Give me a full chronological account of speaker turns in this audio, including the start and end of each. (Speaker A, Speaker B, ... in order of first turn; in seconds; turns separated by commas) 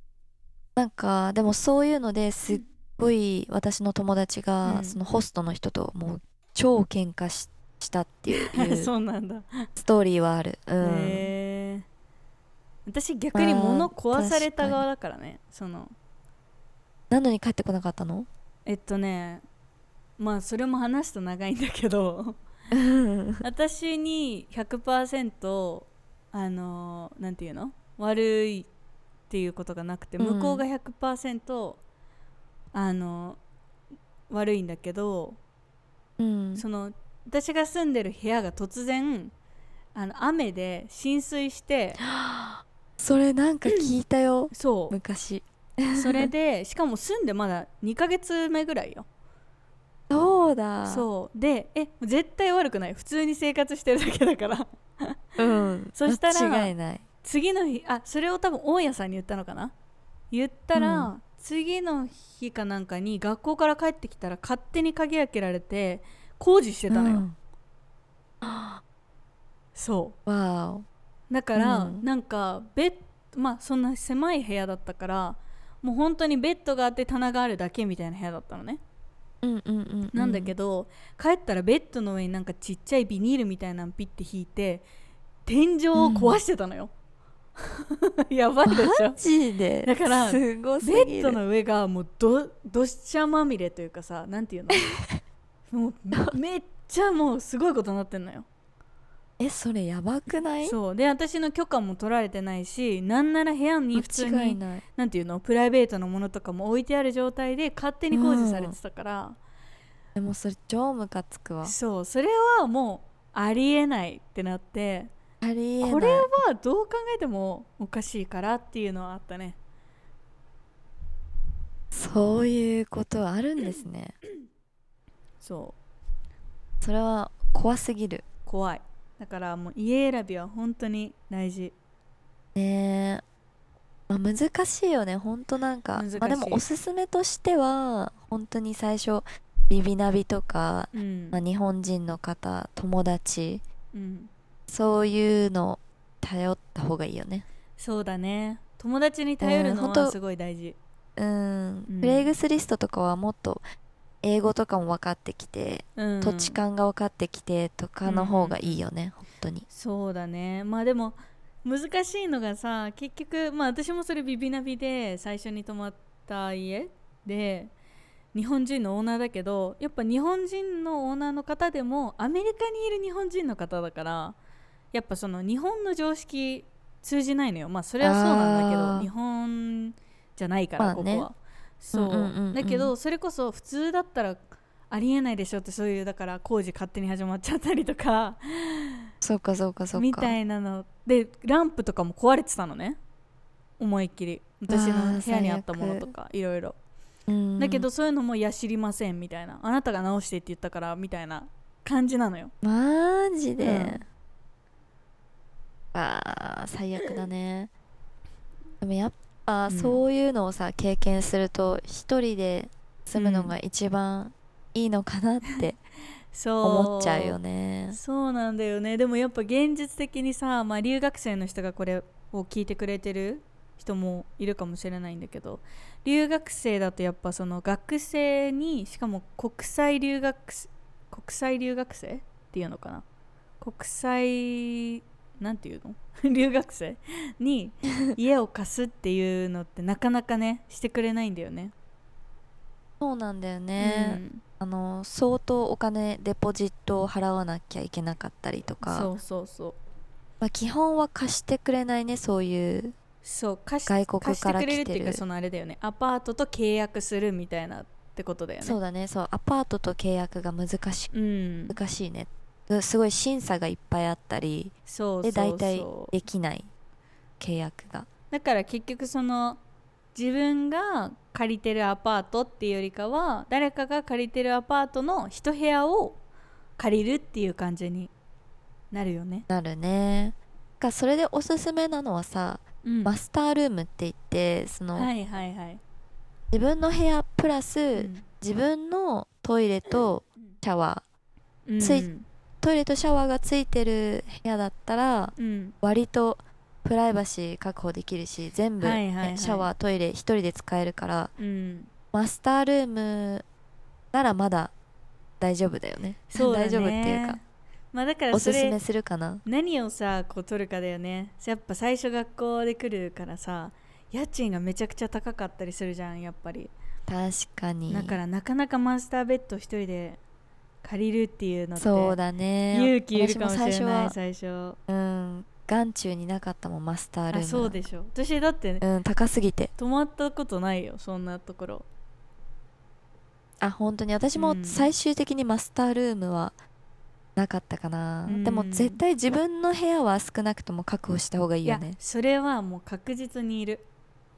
Speaker A: 0.8-8.9, Speaker B: 4.6-5.0, Speaker B: 8.3-9.7, Speaker A: 9.8-11.3, Speaker B: 10.8-11.9, Speaker B: 12.9-15.9, Speaker A: 13.3-14.8, Speaker A: 17.1-18.3, Speaker B: 18.7-19.4, Speaker B: 20.2-22.4, Speaker A: 22.7-23.4, Speaker B: 23.4-28.7, Speaker B: 29.3-31.8, Speaker A: 30.2-30.6, Speaker B: 32.7-33.4, Speaker B: 34.3-35.4, Speaker A: 36.2-36.6, Speaker B: 36.6-39.3, Speaker B: 40.0-42.0, Speaker A: 42.0-46.3, Speaker B: 44.5-45.0, Speaker B: 45.9-49.1, Speaker A: 50.1-51.1, Speaker B: 50.8-55.2, Speaker A: 55.4-57.0, Speaker B: 55.9-56.7, Speaker B: 57.2-59.7, Speaker B: 60.3-67.2, Speaker A: 60.8-61.1, Speaker A: 66.9-67.4, Speaker A: 68.4-68.8, Speaker B: 69.8-70.2, Speaker A: 70.3-70.9, Speaker B: 71.3-78.8, Speaker A: 71.6-72.1, Speaker A: 79.4-80.5, Speaker B: 80.1-84.9, Speaker B: 85.5-86.9, Speaker A: 86.0-86.4, Speaker B: 87.6-89.2, Speaker A: 88.7-91.4, Speaker B: 89.8-94.9, Speaker A: 94.8-95.2, Speaker B: 95.7-98.5, Speaker A: 99.4-100.8, Speaker B: 100.6-109.4, Speaker A: 104.0-104.8, Speaker A: 108.1-108.8, Speaker A: 110.2-111.8, Speaker B: 111.6-115.1, Speaker A: 115.4-116.3, Speaker B: 115.8-119.6, Speaker A: 121.9-124.2, Speaker B: 125.4-125.8, Speaker A: 126.8-128.2, Speaker B: 128.5-131.7, Speaker A: 132.6-133.2, Speaker A: 134.1-143.6, Speaker B: 135.9-136.7, Speaker B: 140.9-141.4, Speaker B: 143.9-144.3, Speaker A: 144.7-147.4, Speaker B: 147.8-150.8, Speaker A: 149.4-150.2, Speaker A: 151.2-153.6, Speaker B: 151.9-152.3, Speaker A: 154.2-159.7, Speaker B: 156.0-156.6, Speaker B: 158.1-158.8, Speaker B: 159.7-167.7, Speaker B: 168.3-174.4, Speaker B: 174.9-189.0, Speaker A: 178.0-179.1, Speaker A: 180.8-181.3, Speaker A: 181.9-182.9, Speaker A: 189.2-190.4, Speaker B: 189.9-193.0, Speaker B: 193.8-196.8, Speaker A: 194.7-196.1, Speaker A: 197.3-197.9, Speaker B: 197.6-202.5, Speaker A: 202.6-204.0, Speaker B: 203.6-204.0, Speaker A: 205.9-207.7, Speaker A: 208.8-215.8, Speaker B: 209.7-210.0, Speaker B: 213.2-213.5, Speaker B: 216.3-217.4, Speaker A: 216.6-218.0, Speaker B: 217.9-233.1, Speaker B: 233.6-241.7, Speaker A: 243.0-249.1, Speaker B: 243.8-244.4, Speaker B: 248.8-249.8, Speaker A: 250.4-252.9, Speaker B: 253.2-258.8, Speaker A: 253.9-255.2, Speaker A: 258.6-261.1, Speaker B: 261.1-261.8, Speaker A: 261.7-266.7, Speaker B: 264.9-266.1, Speaker A: 267.4-268.1, Speaker B: 268.3-269.6, Speaker B: 270.1-276.2, Speaker B: 276.8-278.1, Speaker B: 278.9-279.5, Speaker A: 279.5-285.1, Speaker B: 282.9-283.1, Speaker B: 284.9-285.8, Speaker A: 286.5-291.0, Speaker B: 287.9-288.3, Speaker B: 291.7-292.2, Speaker A: 291.8-292.1, Speaker A: 292.6-301.3, Speaker B: 295.4-295.8, Speaker B: 298.8-299.7, Speaker B: 301.4-301.9, Speaker A: 302.1-303.4, Speaker A: 304.1-304.7, Speaker A: 305.4-307.4, Speaker B: 306.3-307.4, Speaker B: 307.9-308.8, Speaker A: 308.3-309.4, Speaker B: 309.4-316.7, Speaker A: 317.1-318.2, Speaker B: 317.9-320.2, Speaker B: 320.8-322.2, Speaker A: 321.8-324.1, Speaker B: 322.7-324.8, Speaker A: 324.9-327.8, Speaker B: 327.3-328.8, Speaker A: 328.8-329.7, Speaker B: 329.8-331.9, Speaker A: 333.6-336.6, Speaker B: 334.4-334.9, Speaker A: 337.4-342.0, Speaker B: 338.3-339.0, Speaker B: 341.6-343.9